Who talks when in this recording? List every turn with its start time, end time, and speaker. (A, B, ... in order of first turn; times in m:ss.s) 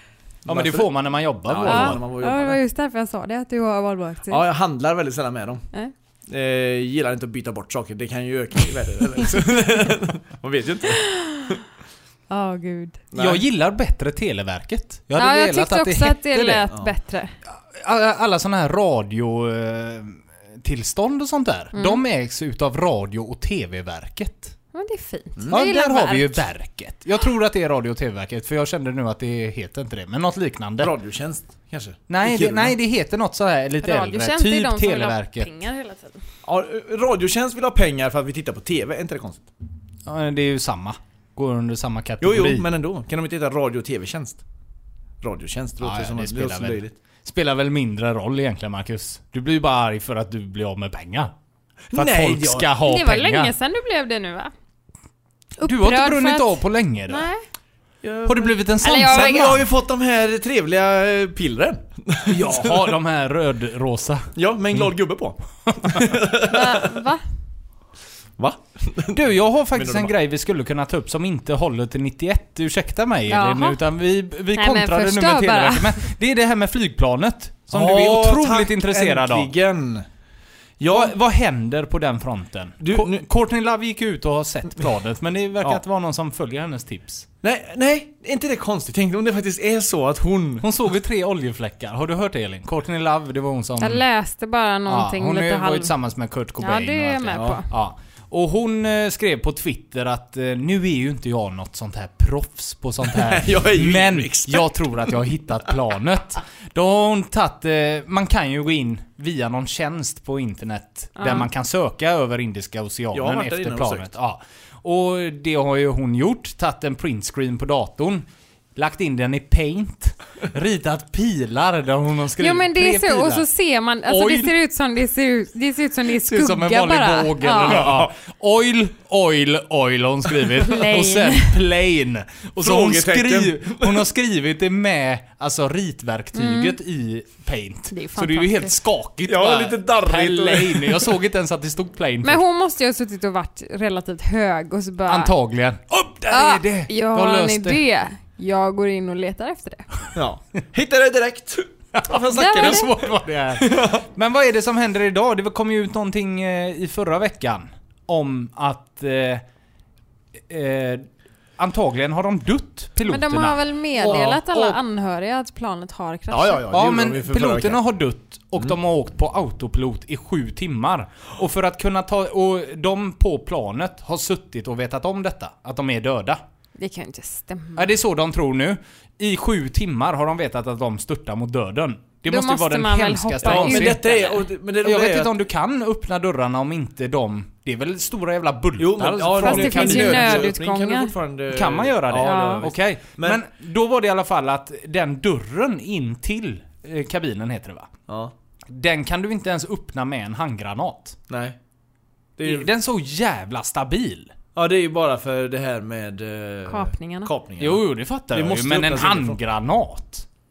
0:00.4-0:00.9 A
0:00.4-0:02.0 B
0:01.4-0:02.6 A
0:01.6-0:04.4 C
0:04.3-0:05.6 A
0:06.3-0:11.5 A
0:09.2-0:09.5 C
0:10.9-0:11.6 C
0:12.3-0:13.0 C
0:13.1-0:13.4 A
0:13.2-0:16.7 B
0:15.2-0:17.3 C
0:17.5-0:24.5 B
0:21.7-0:22.0 C
0:24.7-0:26.4 C
0:25.5-0:30.9 B
0:30.8-0:32.7 A
0:32.1-0:35.5 B
0:33.8-0:36.2 C
0:36.4-0:39.4 A
0:40.0-0:42.7 B
0:42.2-0:44.4 A
0:45.2-0:46.9 A
0:45.8-0:51.3 B
0:51.9-0:52.7 A
0:51.9-0:53.5 B
0:52.8-0:54.5 C
0:55.6-0:57.4 C
0:55.6-0:57.3 B
0:58.0-1:02.9 A
0:58.2-0:59.7 B
0:58.8-0:59.6 C
1:02.2-1:04.9 B
1:04.4-1:07.0 A
1:06.5-1:07.2 C
1:08.4-1:10.1 A
1:09.1-1:19.5 B
1:13.3-1:13.8 C
1:14.5-1:16.0 C
1:17.7-1:20.0 A
1:20.8-1:21.1 A
1:20.9-1:27.3 B
1:22.8-1:23.2 A
1:27.4-1:30.6 A
1:30.6-1:34.0 B
1:33.8-1:35.9 C
1:34.9-2:03.4 B
1:36.6-1:37.7 C
1:37.3-1:37.6 A
1:43.1-1:44.9 A
1:51.1-1:51.5 C
1:53.1-1:54.0 A
2:02.4-2:07.9 C
2:04.0-2:04.6 B
2:06.2-2:22.4 B
2:07.6-2:08.1 A
2:10.6-2:11.6 C
2:12.6-2:14.0 A
2:16.3-2:16.8 C
2:17.9-2:18.7 C
2:19.2-2:21.2 A
2:22.2-2:25.3 C
2:25.0-2:27.8 B
2:26.3-2:29.9 C
2:30.1-2:34.0 A
2:32.0-2:39.4 B
2:32.3-2:32.9 C
2:40.4-2:44.8 B
2:43.0-2:46.6 C
2:46.3-2:47.8 A
2:46.7-2:56.4 B
2:56.8-2:57.9 C
2:57.8-3:10.5 B
3:02.3-3:04.0 C
3:03.4-3:05.3 A
3:08.8-3:13.4 A
3:09.4-3:11.1 C
3:11.5-3:17.9 B
3:12.2-3:12.7 C
3:18.1-3:18.3 A
3:18.7-3:21.2 B
3:21.3-3:21.6 A
3:22.4-3:22.7 A
3:22.4-3:24.3 B
3:24.5-3:29.4 A
3:26.7-3:27.3 C
3:27.6-3:30.2 B